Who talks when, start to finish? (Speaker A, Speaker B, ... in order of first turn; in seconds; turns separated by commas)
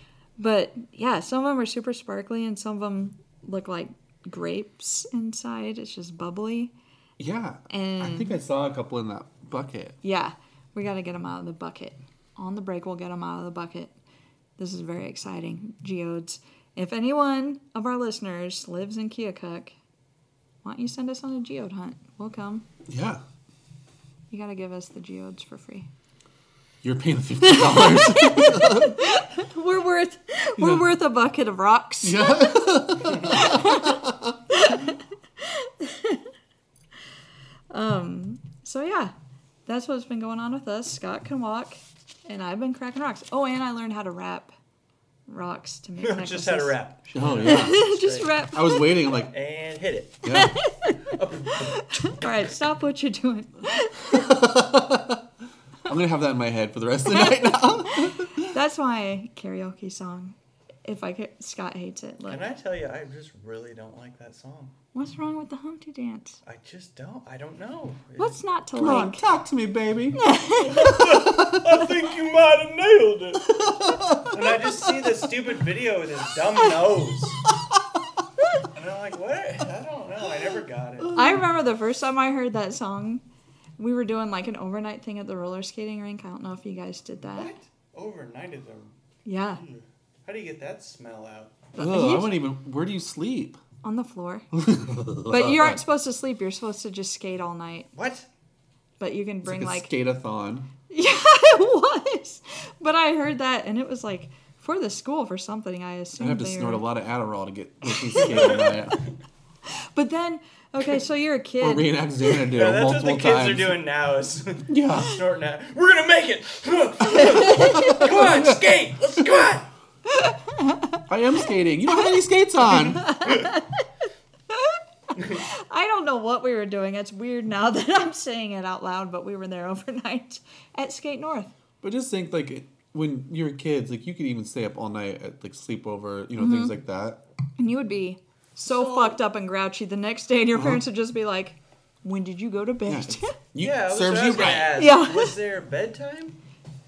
Speaker A: 0.4-6.7, Speaker B: 7.2-10.0, Speaker A: 7.7-8.4, Speaker A: 10.0-13.9, Speaker A: 14.6-19.8, Speaker A: 20.6-22.7, Speaker B: 22.9-23.2, Speaker A: 24.3-25.9, Speaker B: 26.8-29.0, Speaker A: 27.5-36.2, Speaker B: 30.6-31.0, Speaker B: 32.0-34.3, Speaker A: 37.7-39.1, Speaker A: 39.7-44.5, Speaker A: 45.3-46.8, Speaker C: 46.0-48.4, Speaker B: 47.1-47.9, Speaker A: 47.4-49.0, Speaker B: 48.5-49.3, Speaker C: 49.2-50.4, Speaker B: 50.2-50.5, Speaker A: 50.3-54.4, Speaker C: 51.1-52.2, Speaker B: 54.1-55.3, Speaker B: 55.9-58.5, Speaker A: 57.1-62.4, Speaker C: 62.3-64.8, Speaker A: 64.9-66.4, Speaker C: 66.5-68.4, Speaker A: 68.2-69.3, Speaker B: 68.8-70.3, Speaker A: 70.2-70.9, Speaker C: 70.6-73.6, Speaker B: 71.0-71.8, Speaker B: 73.6-74.7, Speaker C: 74.2-77.4, Speaker C: 78.7-81.2, Speaker A: 81.2-83.2, Speaker A: 83.8-87.5, Speaker C: 87.3-89.0, Speaker A: 89.2-89.6, Speaker C: 89.6-91.6, Speaker A: 91.8-92.4, Speaker B: 91.8-93.6, Speaker A: 93.8-94.5, Speaker B: 94.5-95.8, Speaker A: 95.2-97.9, Speaker C: 97.9-98.3, Speaker A: 99.0-99.9, Speaker B: 99.4-100.7, Speaker A: 100.9-106.9, Speaker B: 106.2-109.0, Speaker C: 108.3-108.7, Speaker A: 110.0-112.0, Speaker B: 111.6-113.8, Speaker C: 112.5-119.7, Speaker B: 114.7-115.2, Speaker B: 117.6-118.8, Speaker A: 120.2-121.0, Speaker B: 121.1-123.2, Speaker A: 123.0-123.8, Speaker A: 124.5-131.5, Speaker B: 131.8-137.2, Speaker A: 136.4-136.8, Speaker A: 137.6-143.4, Speaker C: 138.7-139.2, Speaker B: 140.5-140.8, Speaker B: 142.9-144.9, Speaker C: 143.6-146.4, Speaker A: 144.8-145.4